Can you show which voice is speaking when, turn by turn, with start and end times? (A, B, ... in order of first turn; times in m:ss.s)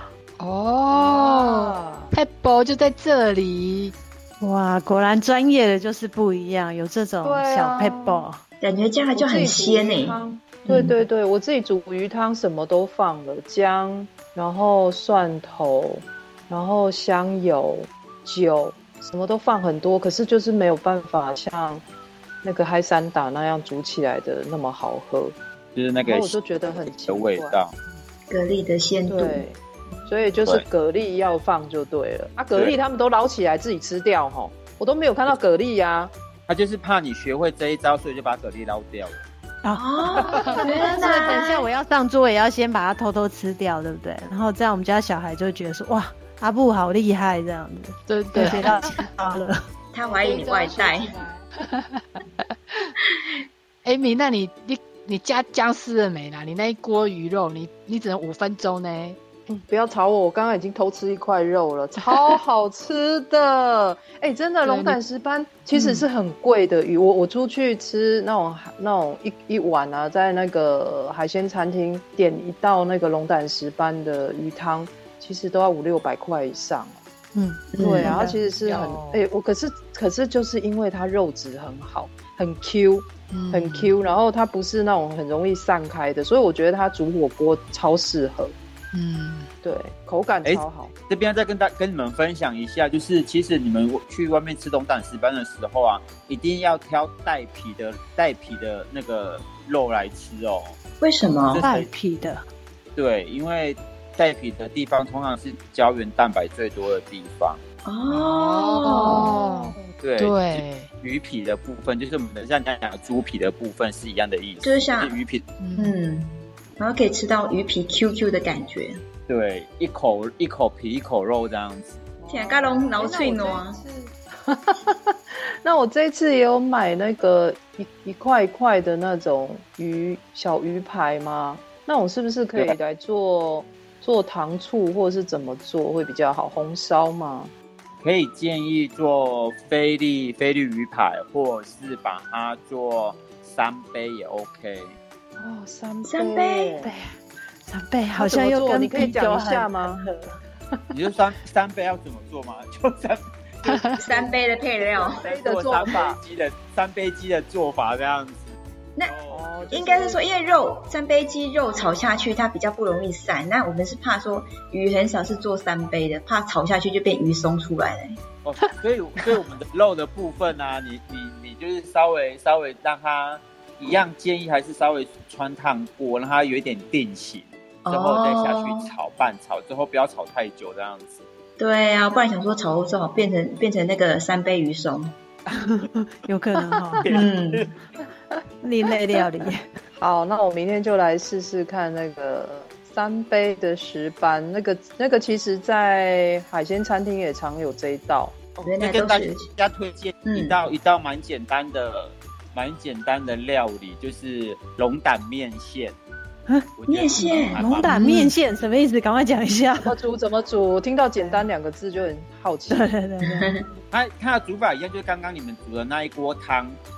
0:00.4-0:03.9 A
0:00.9-0:02.1 B
0:04.4-0:08.4 C
0:07.2-0:08.3 B
0:08.6-0:11.0 D
0:09.1-0:21.8 B
0:22.4-0:25.4 B
0:25.8-0:27.8 E
0:26.0-0:27.6 B
0:28.3-0:29.4 D
0:29.1-0:36.1 B
0:36.5-0:39.2 E
0:39.8-0:41.6 D
0:40.2-0:41.7 A
0:40.4-0:49.6 C
0:48.1-0:49.1 A
0:49.9-0:51.1 D
0:50.0-0:52.9 A
0:53.8-0:59.2 A
0:59.5-1:17.0 B
1:04.6-1:05.0 A
1:05.7-1:06.1 A
1:17.3-1:18.4 C
1:17.8-1:18.2 D
1:17.8-1:28.5 B
1:18.6-1:19.2 A
1:23.3-1:23.9 A
1:28.9-1:29.5 A
1:29.6-1:30.9 B
1:30.4-1:40.8 E
1:41.0-1:41.7 D
1:41.5-1:41.9 E
1:41.6-1:42.4 C
1:43.0-1:47.6 E
1:47.8-1:49.3 D
1:48.1-1:50.9 A
1:49.1-1:50.0 B
1:50.0-1:55.5 E
1:54.6-1:55.2 D
1:55.6-1:56.0 A
1:55.8-1:59.0 D
1:59.3-2:02.0 E
2:02.2-2:17.5 B
2:02.3-2:03.8 D
2:18.0-2:25.0 E
2:25.4-2:26.9 B
2:26.1-2:26.9 D
2:26.8-2:27.1 C
2:27.6-2:30.4 C
2:28.2-2:30.1 B
2:30.9-2:33.3 E
2:33.6-2:34.0 A
2:33.9-2:36.2 B
2:34.0-2:35.2 D
2:35.2-2:40.2 E
2:39.3-2:40.2 B
2:39.7-2:48.2 D
2:48.4-3:01.2 E
2:57.9-2:58.9 D
3:01.6-3:05.2 D
3:05.5-3:07.0 C
3:07.0-3:07.7 E
3:07.1-3:07.7 D
3:08.6-3:09.7 C
3:10.0-3:18.4 B
3:18.6-3:19.5 D
3:18.8-3:26.0 E
3:20.3-3:20.6 D
3:26.8-3:28.0 E
3:26.9-3:27.6 D
3:27.2-3:29.9 C
3:29.8-3:32.9 B
3:31.2-3:31.5 C
3:32.7-3:33.6 C
3:33.2-3:33.6 D
3:33.9-3:36.8 E